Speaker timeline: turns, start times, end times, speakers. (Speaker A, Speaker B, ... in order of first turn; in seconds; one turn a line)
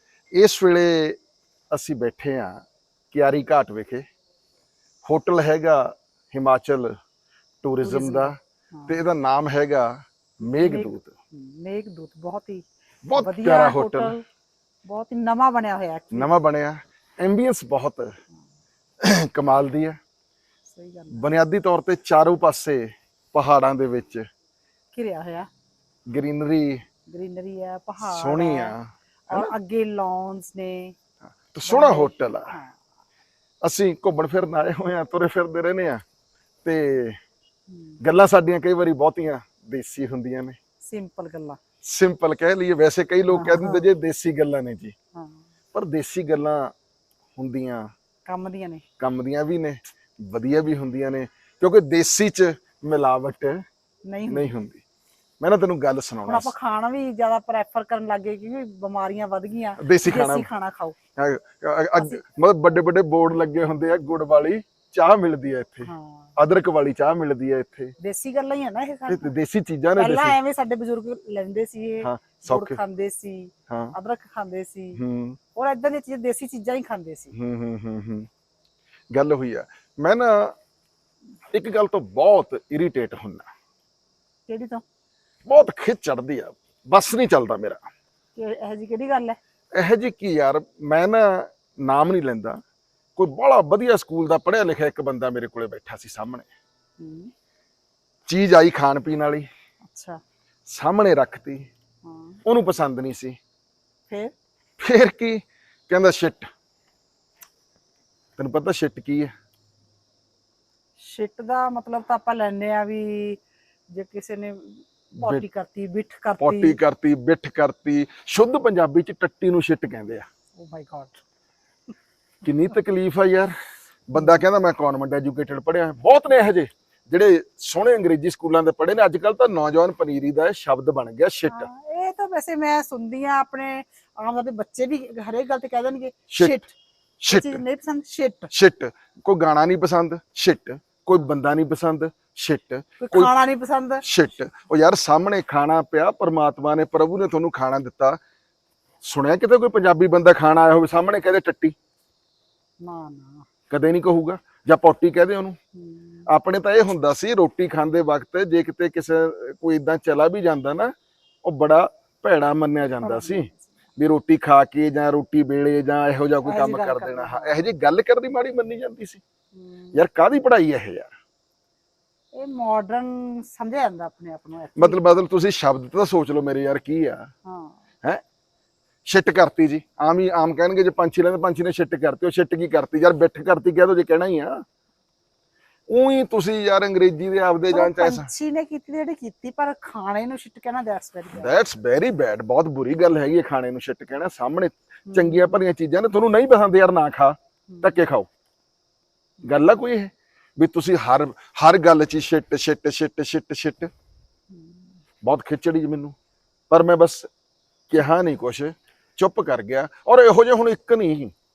Speaker A: 0.3-1.2
Speaker A: 1.7-4.0
Speaker A: 5.0-7.0
Speaker A: 7.6-8.3
Speaker B: 7.8-9.0
Speaker A: 8.9-11.1
Speaker B: 10.5-14.2
Speaker A: 13.1-14.1
Speaker B: 14.8-16.3
Speaker A: 16.1-18.1
Speaker A: 19.0-20.0
Speaker B: 20.7-21.2
Speaker A: 21.1-24.2
Speaker B: 24.9-25.5
Speaker A: 26.1-26.8
Speaker B: 27.1-28.7
Speaker A: 28.0-29.5
Speaker B: 29.3-30.9
Speaker A: 31.5-32.5
Speaker B: 31.6-32.7
Speaker A: 33.6-36.0
Speaker A: 36.6-37.2
Speaker B: 37.7-38.0
Speaker A: 38.0-40.6
Speaker B: 40.8-41.6
Speaker A: 41.8-44.9
Speaker B: 43.3-43.8
Speaker B: 45.1-45.4
Speaker A: 45.7-46.7
Speaker A: 47.4-47.9
Speaker B: 48.2-48.8
Speaker A: 49.0-53.6
Speaker B: 54.0-54.5
Speaker A: 54.3-54.8
Speaker A: 55.4-56.5
Speaker B: 56.2-60.9
Speaker A: 59.8-60.5
Speaker A: 61.1-67.9
Speaker B: 62.0-62.2
Speaker B: 65.8-66.3
Speaker B: 68.0-69.3
Speaker A: 69.1-70.3
Speaker B: 70.0-75.0
Speaker A: 72.0-72.8
Speaker A: 73.7-73.9
Speaker A: 75.0-75.4
Speaker B: 75.5-77.3
Speaker A: 77.3-78.3
Speaker A: 79.1-80.5
Speaker A: 81.5-83.5
Speaker B: 84.5-84.8
Speaker A: 85.5-87.8
Speaker B: 88.3-89.4
Speaker A: 89.7-92.6
Speaker A: 93.2-96.5
Speaker B: 97.0-97.3
Speaker A: 98.3-99.5
Speaker B: 99.8-100.2
Speaker A: 100.7-101.7
Speaker B: 102.0-102.4
Speaker A: 102.4-103.4
Speaker B: 104.1-104.3
Speaker A: 104.8-106.5
Speaker A: 108.4-109.3
Speaker B: 111.0-113.4
Speaker B: 113.9-116.8
Speaker A: 115.2-115.4
Speaker A: 116.4-120.2
Speaker B: 120.5-121.2
Speaker A: 122.4-123.5
Speaker A: 124.1-131.7
Speaker B: 124.1-124.4
Speaker B: 131.5-136.8
Speaker A: 136.3-136.6
Speaker A: 137.2-137.6
Speaker B: 137.3-138.5
Speaker A: 138.5-143.3
Speaker B: 143.0-144.0
Speaker A: 144.0-148.2
Speaker A: 149.0-151.7
Speaker B: 152.8-153.4
Speaker A: 153.7-155.6
Speaker B: 155.7-156.3
Speaker A: 156.3-160.9
Speaker A: 161.4-169.2
Speaker B: 163.0-163.7
Speaker B: 166.4-167.7
Speaker B: 169.5-170.0
Speaker A: 169.9-171.1
Speaker B: 172.3-175.0
Speaker A: 174.8-177.3
Speaker B: 177.4-177.8
Speaker A: 179.1-184.6
Speaker A: 185.9-188.3
Speaker B: 187.7-191.5
Speaker A: 191.3-198.3
Speaker B: 195.1-195.6
Speaker B: 197.7-198.0
Speaker A: 199.4-203.9
Speaker B: 199.5-199.7
Speaker B: 204.5-204.9
Speaker A: 205.2-206.1
Speaker A: 206.7-207.3
Speaker A: 207.9-211.3